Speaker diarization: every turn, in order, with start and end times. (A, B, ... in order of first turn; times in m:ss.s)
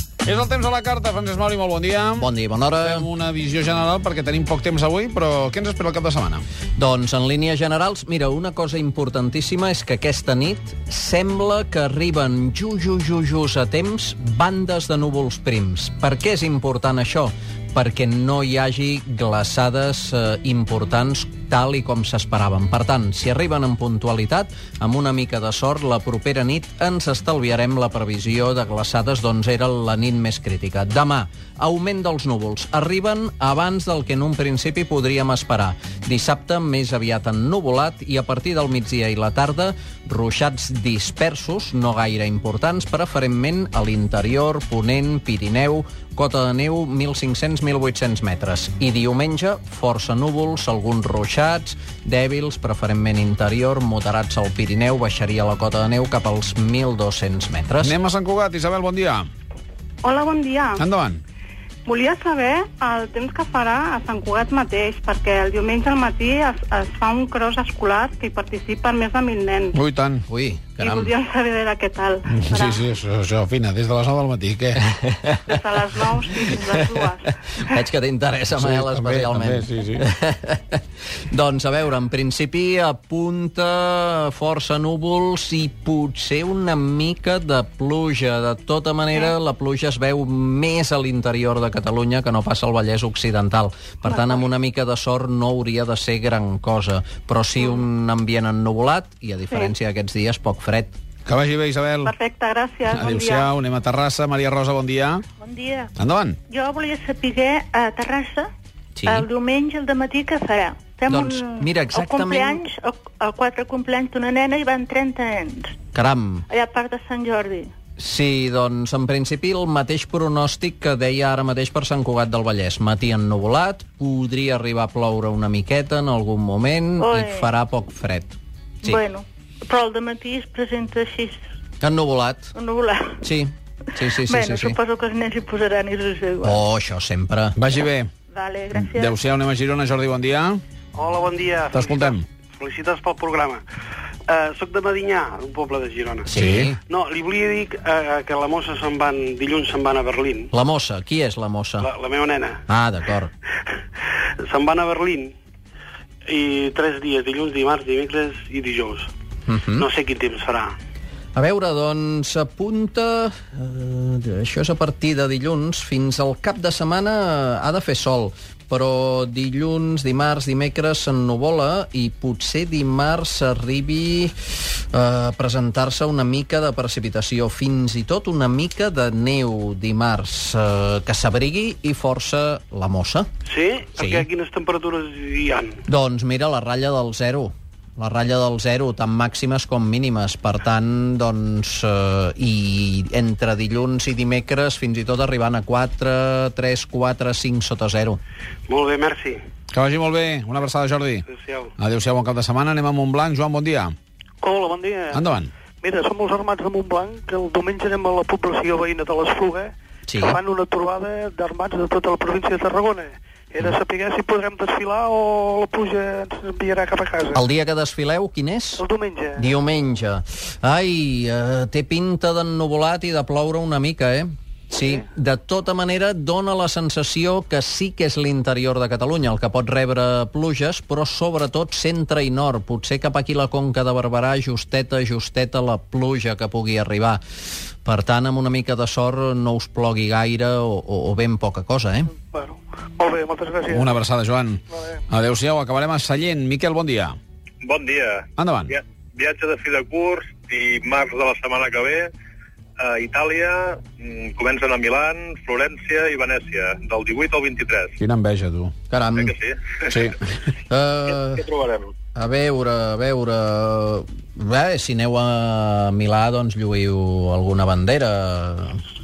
0:00.2-0:02.3 A
0:02.2-0:03.0 B
0:02.8-0:06.4 A
0:06.8-0:57.9 B
0:57.8-0:59.3 A
1:00.0-1:00.8 C
1:00.8-1:01.2 A
1:01.8-1:09.8 C
1:09.7-1:10.2 A
1:10.3-1:11.1 B
1:10.8-1:12.8 C
1:12.3-1:14.8 A
1:14.8-1:15.6 B
1:15.4-1:17.3 C
1:16.4-1:41.0 B
1:18.6-1:20.0 A
1:41.2-1:42.1 A
1:42.0-1:43.5 C
1:42.9-1:45.2 A
1:45.4-1:45.9 D
1:46.0-1:46.4 A
1:46.5-1:48.5 D
1:49.0-1:49.3 B
1:49.0-1:55.8 D
1:51.1-1:52.6 B
1:55.9-1:56.5 B
1:56.5-1:57.7 D
1:58.0-2:09.0 B
2:07.0-2:07.5 D
2:08.8-2:11.4 D
2:11.8-2:12.5 B
2:12.6-2:13.2 D
2:13.2-2:14.8 B
2:14.2-2:16.6 D
2:16.4-2:17.5 B
2:17.6-2:18.1 A
2:18.3-2:19.2 D
2:18.7-2:20.6 A
2:20.9-2:23.6 E
2:21.7-2:22.2 A
2:24.3-2:26.3 E
2:26.3-2:26.8 B
2:26.3-2:26.7 A
2:26.9-2:30.5 E
2:30.5-2:31.9 B
2:31.8-2:32.6 E
2:32.7-2:33.3 B
2:34.4-2:35.3 E
2:36.3-2:39.1 E
2:39.5-2:39.9 B
2:39.8-2:40.8 E
2:41.3-3:03.3 B
3:03.5-3:05.8 E
3:04.0-3:04.2 B
3:05.9-3:18.2 B
3:18.7-3:19.4 E
3:19.7-3:21.2 A
3:21.3-3:21.7 E
3:21.8-3:23.9 A
3:24.4-3:25.2 F
3:25.1-3:25.5 A
3:25.8-3:37.4 F
3:30.1-3:30.4 B
3:37.3-3:38.8 B
3:38.8-3:39.4 F
3:39.4-3:57.2 B
3:57.8-4:02.1 B
4:02.2-4:03.9 F
4:03.7-4:07.2 A
4:07.6-4:12.1 G
4:08.4-4:08.7 A
4:12.8-4:18.0 G
4:18.0-4:18.7 A
4:18.9-4:19.3 B
4:19.2-4:19.8 G
4:19.9-4:20.2 A
4:20.7-4:21.4 B
4:21.4-4:21.9 G
4:22.1-4:28.8 B